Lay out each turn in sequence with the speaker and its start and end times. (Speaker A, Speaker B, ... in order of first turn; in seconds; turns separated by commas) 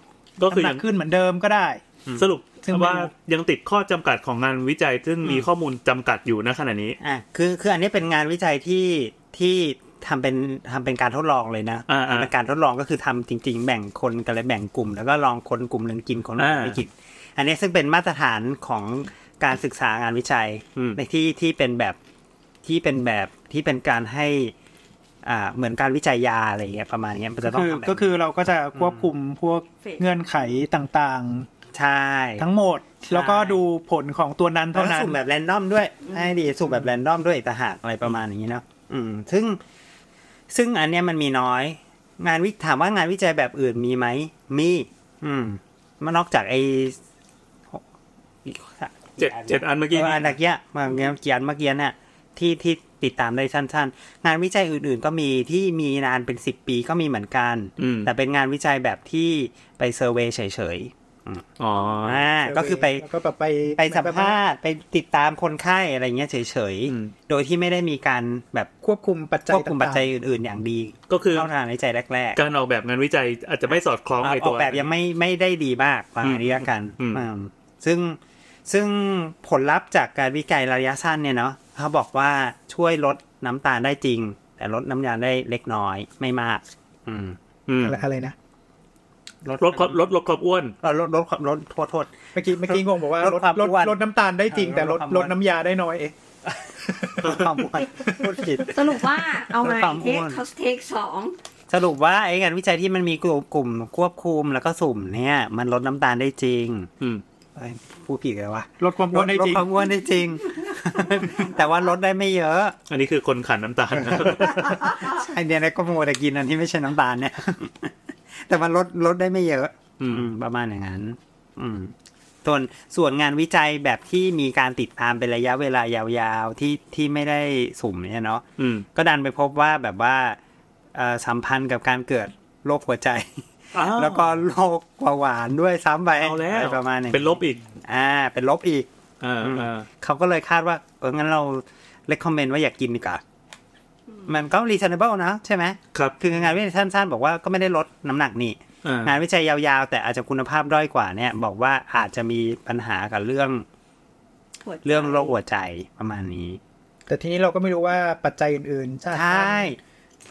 Speaker A: 0.4-0.8, Speaker B: 0.5-1.8, Speaker A: 2.2-7.0, Speaker B: 2.6-3.1, Speaker C: 7.0-22.0, Speaker A: 11.9-12.3, Speaker A: 16.4-16.8, Speaker C: 22.6-24.5, Speaker C: 25.2-28.1, Speaker B: 27.4-31.5, Speaker C: 28.8-29.1, Speaker C: 31.7-32.5, Speaker B: 32.4-35.2, Speaker C: 33.1-33.6, Speaker C: 34.7-39.6, Speaker C: 40.5-47.0, Speaker C: 48.5-61.5, Speaker A: 49.2-50.3, Speaker A: 57.8-58.1, Speaker A: 61.6-62.3, Speaker C: 62.0-63.0, Speaker B: 62.5-64.4, Speaker C: 63.8-68.7, Speaker A: 66.9-67.1, Speaker B: 68.8-70.0, Speaker C: 69.5-72.4, Speaker A: 71.1-71.5, Speaker A: 72.4-74.9, Speaker C: 74.2-87.4, Speaker A: 76.2-77.2, Speaker A: 87.7-88.0, Speaker B: 87.8-88.3, Speaker C: 89.5-90.0, Speaker A: 89.5-90.8, Speaker C: 90.8-94.0, Speaker B: 92.3-96.1, Speaker C: 94.5-95.3, Speaker B: 96.9-97.4, Speaker C: 97.2-100.4, Speaker A: 97.2-97.6, Speaker D: 98.7-101.3, Speaker C: 101.7-106.9, Speaker C: 107.6-112.8, Speaker B: 108.8-109.7, Speaker A: 112.9-114.8, Speaker C: 114.0-128.4, Speaker A: 120.0-120.3, Speaker A: 128.6-128.9, Speaker C: 128.9-130.4, Speaker C: 130.9-138.9, Speaker A: 133.7-134.3, Speaker A: 136.2-137.6, Speaker A: 139.2-139.9, Speaker C: 139.4-143.2, Speaker D: 144.1-144.4, Speaker C: 144.3-153.7, Speaker A: 148.8-149.1, Speaker D: 154.6-155.4, Speaker C: 154.8-156.6, Speaker B: 157.1-159.8, Speaker C: 159.1-159.8